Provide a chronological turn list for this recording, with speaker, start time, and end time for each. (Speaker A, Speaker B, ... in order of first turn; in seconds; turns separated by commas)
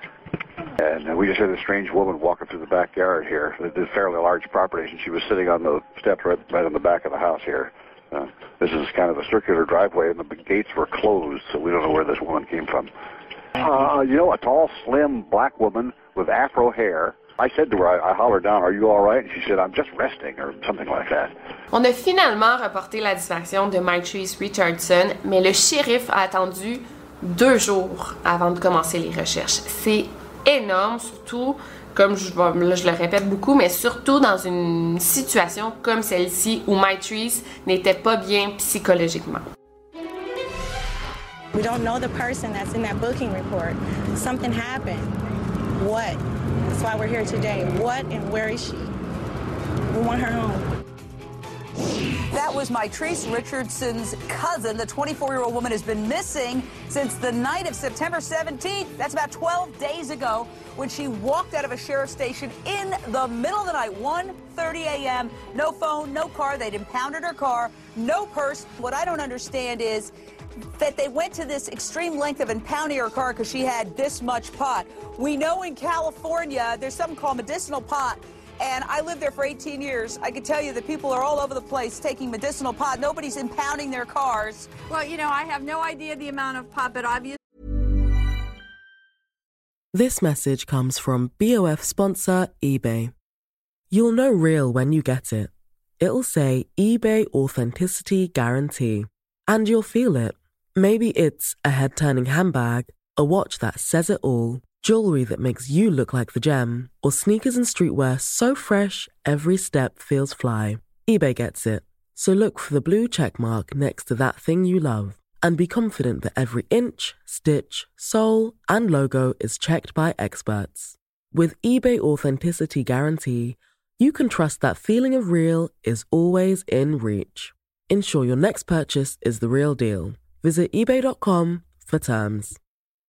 Speaker A: 0.8-12.9, Speaker A: 13.6-21.3, Speaker B: 21.7-39.5, Speaker C: 41.5-45.1, Speaker C: 45.8-48.9, Speaker C: 49.9-50.6, Speaker D: 52.3-70.1, Speaker D: 70.8-84.8, Speaker E: 84.8-87.4, Speaker F: 89.9-93.1, Speaker F: 93.9-132.6